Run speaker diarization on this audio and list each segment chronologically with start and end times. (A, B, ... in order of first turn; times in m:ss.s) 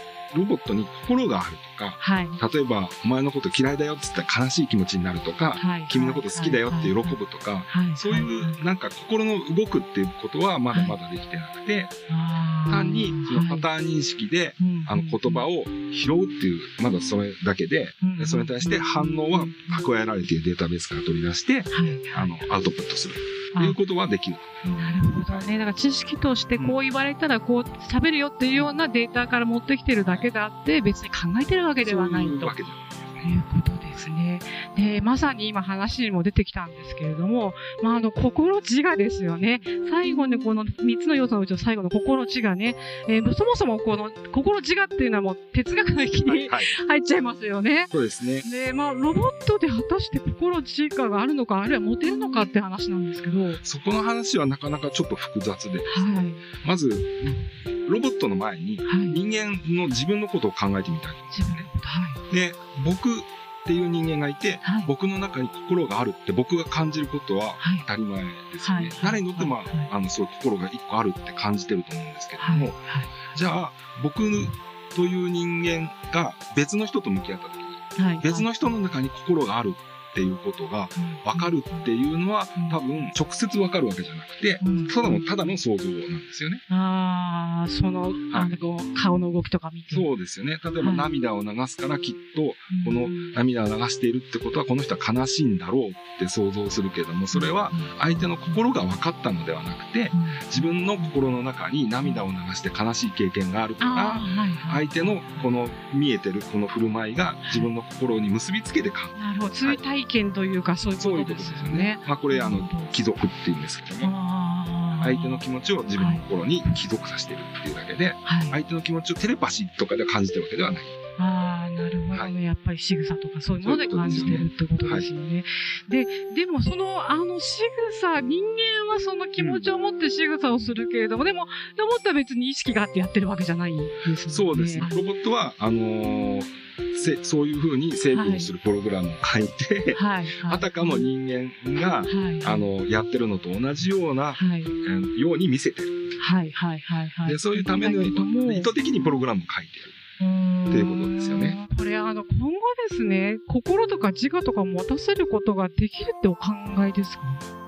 0:00.3-0:12.0 A
0:02.0-0:02.4 B
0:05.6-0:07.2 B
0:07.7-0:08.6 B
0:12.1-0:13.6 B
0:12.7-0:25.5 A
0:14.6-0:15.5 B
0:18.0-0:19.8 B
0:21.7-0:22.3 B
0:24.6-0:32.6 B
0:31.8-0:33.3 A
0:33.2-0:47.9 B
0:39.4-0:39.7 A
0:46.1-0:46.7 A
0:47.9-0:48.5 A
0:48.4-0:53.6 B
0:53.6-1:01.7 A
0:55.9-0:56.4 B
0:58.9-0:59.2 B
1:01.3-1:02.2 B
1:02.3-1:26.6 A
1:04.6-1:04.9 B
1:07.6-1:07.9 B
1:08.6-1:09.9 B
1:12.4-1:13.2 B
1:18.0-1:18.5 B
1:21.0-1:21.8 B
1:24.6-1:25.5 B
1:26.7-1:30.1 B
1:28.3-1:28.6 A
1:29.9-1:49.8 A
1:30.8-1:31.1 B
1:32.7-1:33.4 B
1:37.3-1:38.6 B
1:40.1-1:41.1 B
1:43.8-1:45.5 B
1:47.4-1:47.7 B
1:49.2-1:53.0 B
1:51.0-1:54.1 A
1:54.0-1:55.4 B
1:55.0-2:01.0 A
1:56.0-1:56.2 B
1:58.2-1:58.6 B
2:01.2-2:15.0 B
2:03.6-2:05.1 A
2:09.4-2:09.7 A
2:10.5-2:10.8 A
2:14.3-2:26.2 A
2:18.1-2:18.5 B
2:20.0-2:21.1 B
2:22.1-2:22.7 B
2:24.4-2:24.7 B
2:26.2-2:28.7 B
2:27.2-2:30.0 A
2:30.2-2:37.4 B
2:30.7-2:31.6 A